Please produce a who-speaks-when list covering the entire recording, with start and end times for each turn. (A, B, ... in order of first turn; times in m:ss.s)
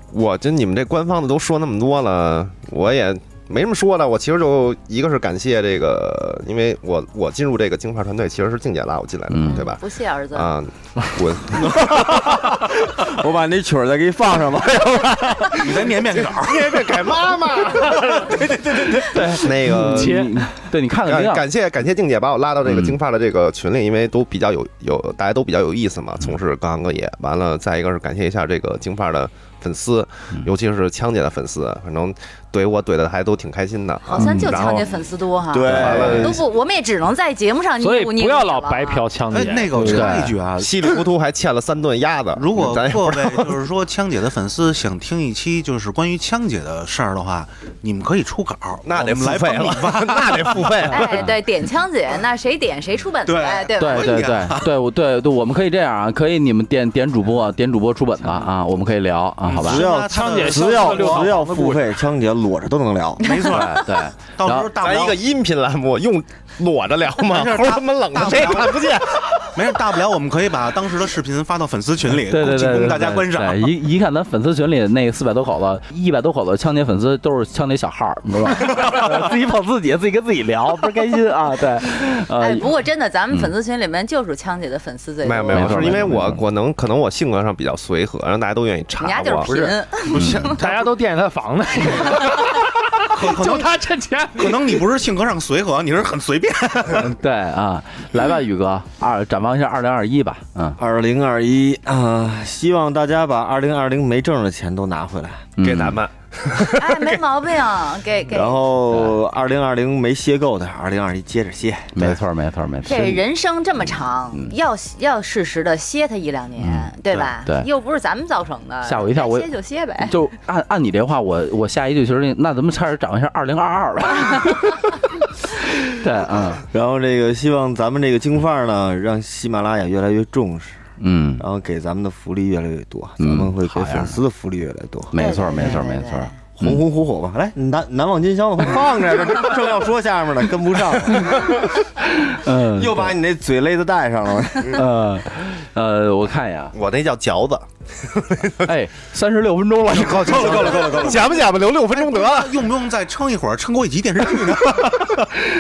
0:00.1-0:09.8 A
0:09.3-0:09.7 B
0:09.4-0:10.5 C
0:10.3-0:12.1 A
0:11.7-0:15.9 D
0:15.3-0:20.3 A
0:15.5-0:17.3 E
0:19.1-0:21.4 B
0:19.8-0:20.3 F
0:21.0-0:35.0 A
0:22.6-0:23.0 B
0:34.0-0:39.1 C
0:34.2-0:34.5 B
0:35.5-0:36.4 D
0:35.7-0:36.3 A
0:37.8-0:40.2 F
0:39.3-0:41.1 E
0:39.9-0:40.4 B
0:40.5-0:43.6 A
0:42.3-0:50.9 E
0:48.8-0:51.2 A
0:50.9-0:54.1 C
0:53.2-0:54.7 E
0:53.8-0:59.9 B
0:59.4-1:01.4 E
0:59.7-1:03.3 D
1:00.2-1:01.9 F
1:03.2-1:05.2 E
1:03.5-1:04.7 B
1:04.8-1:09.6 A
1:07.2-1:13.7 E
1:12.3-1:22.7 B
1:22.4-1:26.0 C
1:25.2-1:29.6 A
1:25.5-1:26.4 B
1:29.0-1:30.6 C
1:29.5-1:34.7 F
1:30.2-1:30.5 B
1:30.3-1:30.6 E
1:33.1-1:33.7 E
1:34.4-1:37.1 E
1:37.0-1:40.8 B
1:40.8-1:45.4 D
1:45.6-1:46.0 B
1:45.6-1:47.2 A
1:46.8-1:48.7 C
1:48.3-1:52.2 D
1:48.9-1:49.2 B
1:52.0-1:53.2 B
1:52.8-2:00.2 C
1:56.6-1:57.7 B
1:58.8-2:05.0 B
2:05.8-2:06.7 B
2:06.7-2:10.8 D
2:11.0-2:11.5 B
2:11.4-2:15.2 D
2:13.2-2:14.2 B
2:15.1-2:16.8 B
2:15.2-2:16.4 C
2:16.6-2:21.5 D
2:22.2-2:23.2 B
2:22.8-2:24.8 D
2:24.7-2:26.8 B
2:26.7-2:28.7 A
2:28.6-2:31.1 B
2:29.9-2:32.6 A
2:30.1-2:31.2 D
2:30.2-2:35.3 E